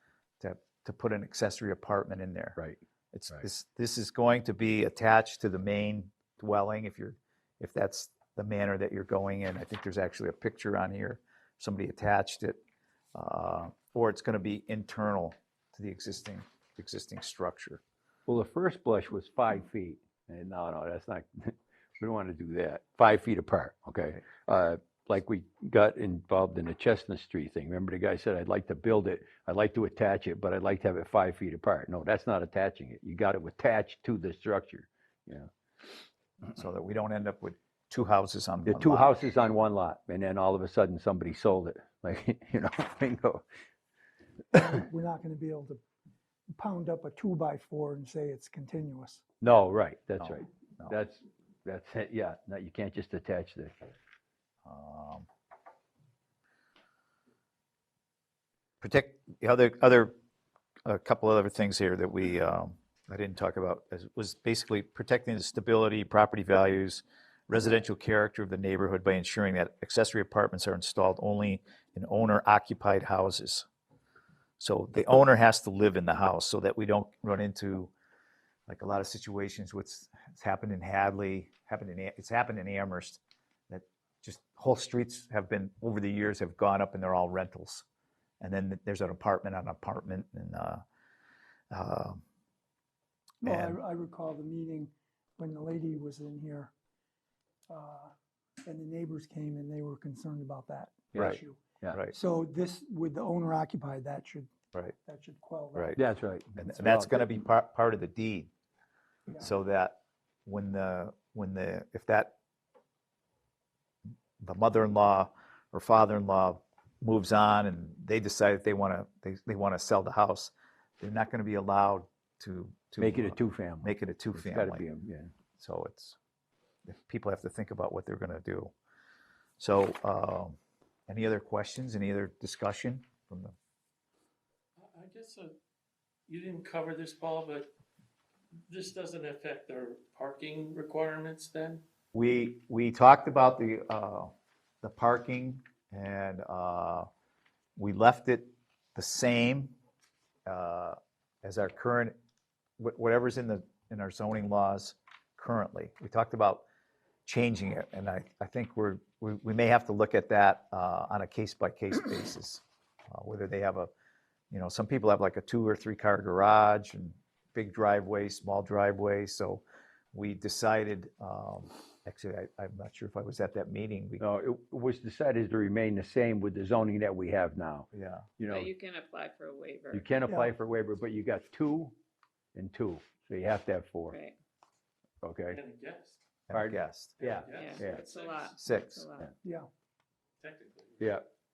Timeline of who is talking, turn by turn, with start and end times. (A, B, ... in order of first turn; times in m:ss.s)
0:00.4-0:02.6 A
0:02.6-0:03.4 B
0:03.1-0:12.6 A
0:13.1-0:17.8 A
0:18.3-0:35.5 B
0:36.5-0:39.1 A
0:38.6-0:43.4 B
0:44.5-0:45.8 C
0:46.5-0:49.2 C
0:49.4-0:53.8 B
0:50.2-0:51.0 A
0:54.6-0:55.3 A
0:58.8-1:00.1 A
1:00.8-1:13.7 A
1:14.6-1:17.9 A
1:18.7-1:27.8 A
1:28.4-1:30.8 A
1:31.7-1:32.2 A
1:33.4-1:36.7 C
1:33.4-1:33.8 A
1:37.7-1:38.1 C
1:38.6-1:41.6 C
1:41.1-1:42.0 B
1:42.1-1:46.0 C
1:46.0-1:47.3 B
1:46.6-1:48.5 A
1:49.4-1:52.3 A
1:54.4-2:04.8 A
2:03.0-2:05.3 B
2:05.6-2:06.2 A
2:06.9-2:08.7 A
2:09.6-2:13.5 A
2:14.8-2:15.5 D
2:16.3-2:17.7 D
2:18.7-2:21.8 D
2:22.1-2:27.1 A
2:27.8-2:29.7 A
2:30.4-2:32.1 A
2:32.8-2:36.6 A
2:37.2-2:43.9 A
2:44.5-2:54.2 A
2:54.2-2:57.9 B
2:57.9-2:58.3 A
2:58.4-2:58.7 B
2:58.5-3:00.1 E
2:59.9-3:01.9 B
3:02.5-3:04.2 B
3:04.1-3:04.4 E
3:05.2-3:05.6 B
3:05.5-3:06.2 D
3:06.5-3:07.2 A
3:06.5-3:08.0 B
3:07.2-3:08.8 D
3:07.5-3:09.3 E
3:08.6-3:09.1 A
3:09.4-3:09.7 C
3:10.4-3:11.2 D
3:11.0-3:11.2 B